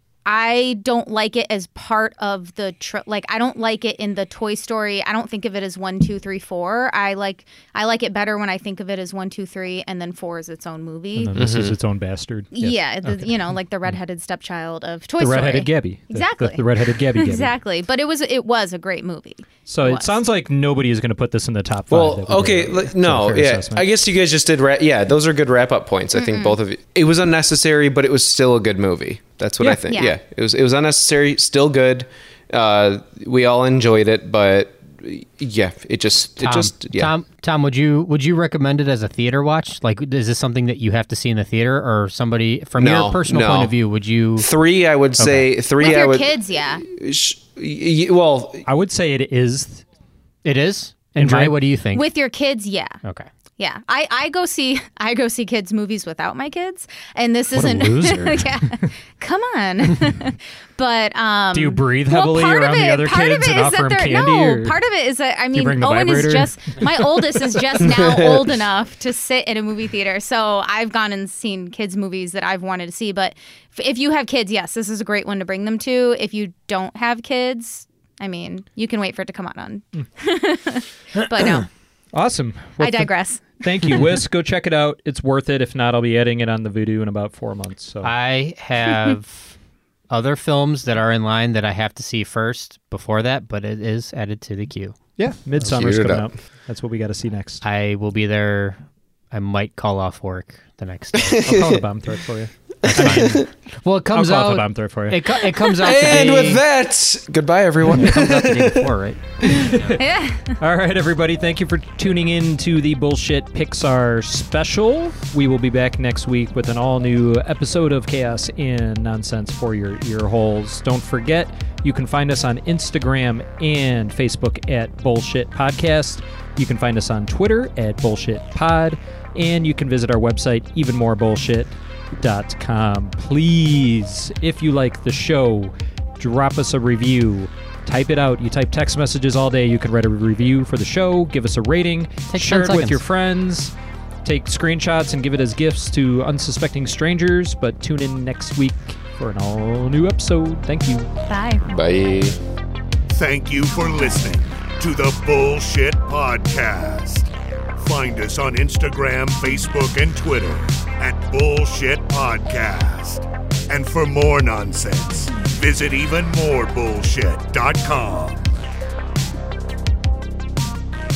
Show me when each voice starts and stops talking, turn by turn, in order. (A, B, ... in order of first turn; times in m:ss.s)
0:00.2-0:11.3 A
0:11.1-0:14.0 B
0:11.4-0:11.8 C
0:12.5-0:20.1 A
0:15.2-0:17.5 B
0:19.7-0:23.9 B
0:21.9-0:37.1 C
0:26.1-0:26.6 A
0:29.6-0:29.8 B
0:29.9-0:30.2 A
0:36.2-0:44.5 D
0:42.8-0:43.7 C
0:44.4-0:48.6 C
0:45.8-0:46.8 A
0:48.6-0:49.8 B
0:50.4-0:52.1 D
0:51.2-0:51.6 B
0:51.9-0:53.0 A
0:53.0-0:53.3 D
0:53.6-1:21.7 A
0:57.5-0:58.9 B
1:01.5-1:04.8 B
1:05.5-1:07.5 B
1:07.8-1:08.4 C
1:22.1-1:28.1 B
1:22.8-1:23.5 A
1:28.0-1:29.6 D
1:30.1-1:35.0 D
1:35.2-1:37.6 B
1:35.6-1:36.3 C
1:37.6-1:41.5 D
1:41.2-1:41.8 C
1:41.4-1:43.4 B
1:42.8-1:46.6 D
1:43.0-1:43.5 C
1:44.1-1:45.8 B
1:45.8-1:48.8 C
1:47.8-1:49.9 D
1:49.4-1:50.0 B
1:50.0-1:50.6 A
1:50.6-2:23.7 B
2:22.3-2:23.0 D
2:24.2-2:31.1 B
2:31.3-2:31.7 A
2:31.6-2:32.4 C
2:33.1-2:48.4 E